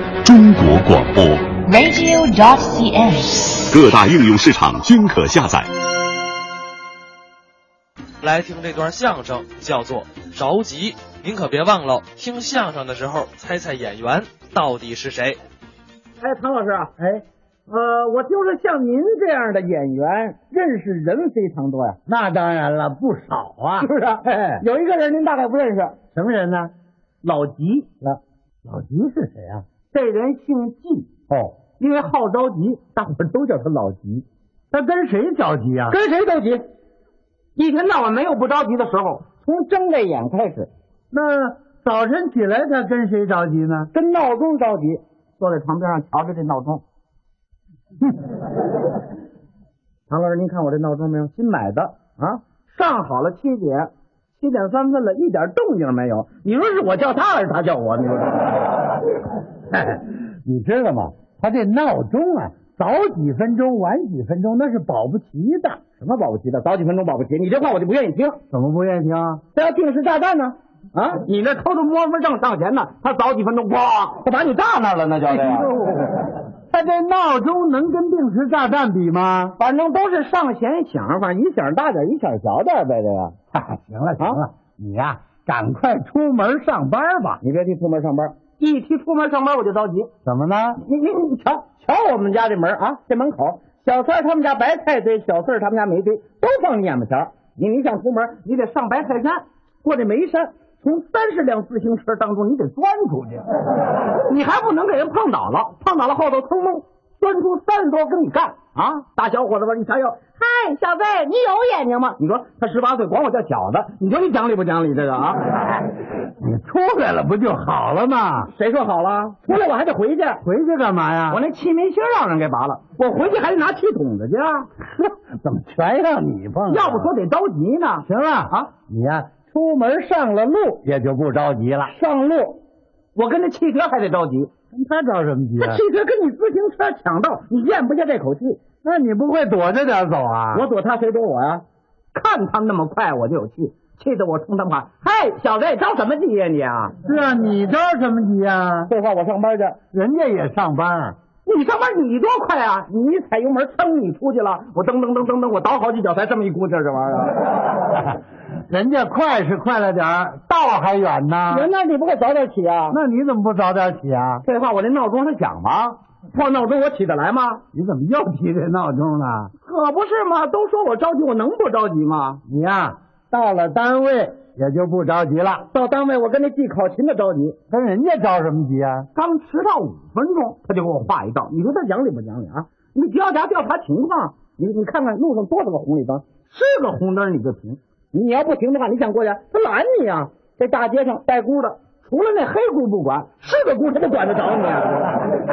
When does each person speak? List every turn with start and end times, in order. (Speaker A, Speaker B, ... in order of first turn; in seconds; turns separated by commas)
Speaker A: 0.2-1.5, Speaker B: 1.6-3.6, Speaker A: 3.7-5.7, Speaker C: 8.2-15.4, Speaker D: 16.2-16.9, Speaker E: 17.0-17.2, Speaker D: 17.7-22.0, Speaker E: 22.1-24.6, Speaker D: 23.8-26.0, Speaker E: 26.1-26.7, Speaker D: 27.2-27.9, Speaker E: 28.0-29.6, Speaker D: 29.9-31.1, Speaker E: 31.3-31.6, Speaker D: 31.8-34.2, Speaker E: 34.7-36.0, Speaker D: 35.9-36.6, Speaker D: 37.5-40.7, Speaker E: 41.1-43.9, Speaker D: 43.9-46.8, Speaker D: 50.1-58.7, Speaker E: 59.9-65.8, Speaker D: 66.0-68.4, Speaker E: 68.5-69.4, Speaker D: 69.5-75.8, Speaker E: 75.3-75.9, Speaker E: 76.7-79.5, Speaker D: 79.6-83.3, Speaker E: 83.5-87.4, Speaker D: 87.4-90.1, Speaker E: 90.2-90.8, Speaker D: 90.8-103.5, Speaker D: 104.1-115.7, Speaker E: 116.4-118.5, Speaker D: 118.5-120.4, Speaker E: 120.4-121.4, Speaker D: 121.3-124.7, Speaker E: 124.9-127.1, Speaker D: 126.7-128.7, Speaker E: 128.1-131.9, Speaker D: 131.9-132.6, Speaker D: 133.1-134.5, Speaker E: 134.7-135.8, Speaker D: 135.6-138.6, Speaker E: 138.8-140.6, Speaker D: 140.5-146.9, Speaker E: 147.0-148.9, Speaker D: 148.9-149.8, Speaker E: 149.9-151.2, Speaker D: 151.4-157.5, Speaker E: 158.7-161.7, Speaker D: 161.5-163.0, Speaker E: 162.9-164.4, Speaker D: 164.4-167.6, Speaker E: 167.7-169.5, Speaker D: 169.6-172.4, Speaker E: 172.5-175.7, Speaker D: 175.7-177.6, Speaker E: 177.7-179.1, Speaker D: 179.1-195.3